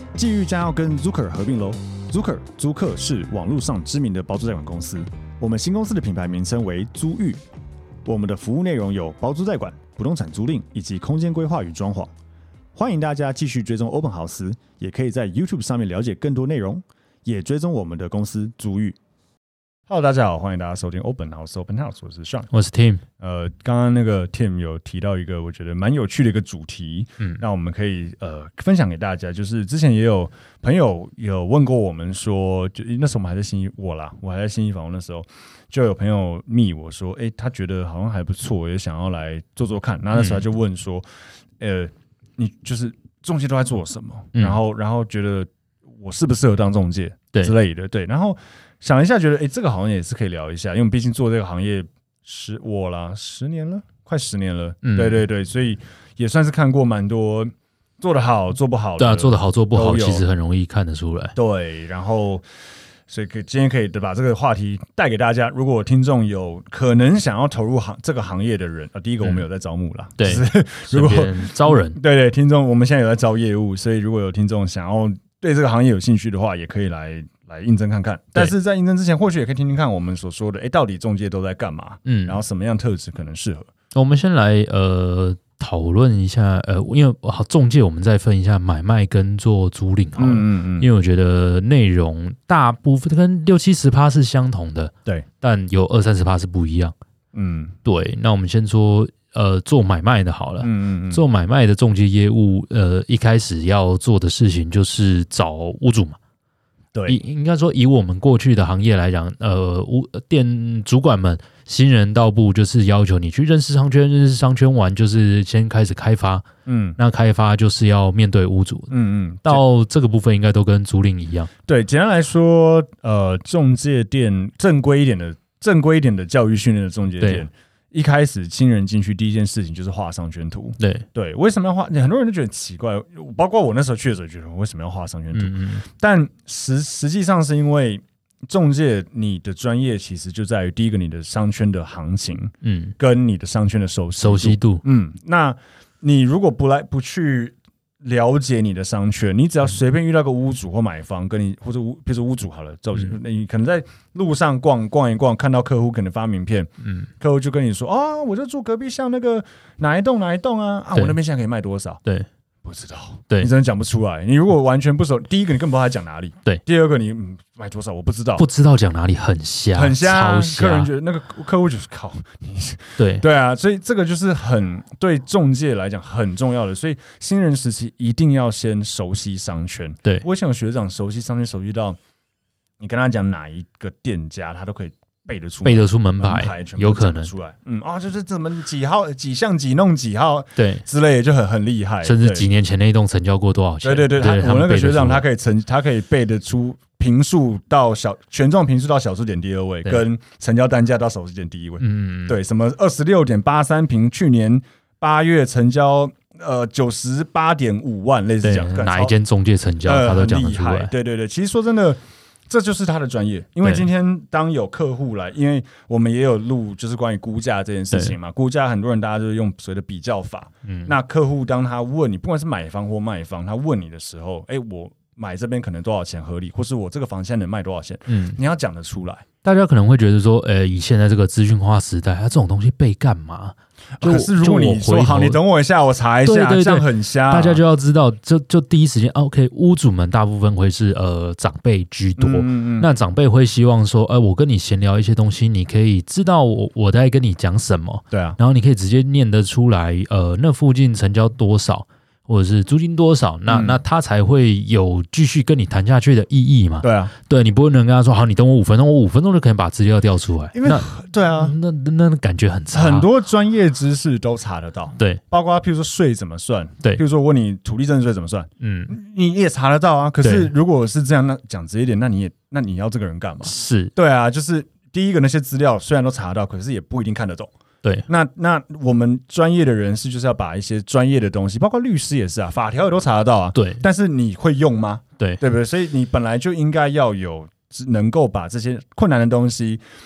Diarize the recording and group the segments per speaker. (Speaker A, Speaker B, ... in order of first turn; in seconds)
Speaker A: 0.1-7.4, 8.1-12.1, 12.7-19.0, 19.9-22.5, 23.2-41.0, 41.6-45.5, 46.0-60.2, 61.3-62.4, 63.1-83.7, 90.2-90.9, 97.3-97.7, 100.6-101.2, 106.9-107.2, 116.7-117.0, 118.9-119.6, 121.7-162.0, 162.6-168.4, 169.7-182.0, 182.8-192.4, 193.8-209.1, 209.8-229.2, 234.0-237.6, 242.2-242.9, 248.1-248.4, 253.5-253.8, 256.8-257.1, 260.5-261.5, 262.7-277.5, 278.1-289.8
Speaker B: 22.5-23.0, 40.1-40.4, 44.3-44.6, 54.8-55.2, 59.0-61.3, 70.2-72.0, 82.0-82.4, 83.9-96.9, 97.8-106.2, 107.1-116.5, 117.0-118.9, 119.4-121.5, 127.2-127.5, 130.8-131.1, 135.3-135.8, 142.6-142.9, 144.2-144.8, 168.4-170.9, 173.0-173.2, 185.6-187.3, 190.6-190.8, 192.0-195.2, 201.8-202.4, 208.4-210.9, 220.6-220.9, 228.1-228.4, 229.4-235.4, 236.2-263.1, 268.6-268.9, 270.2-270.5, 273.4-273.9, 283.5-283.8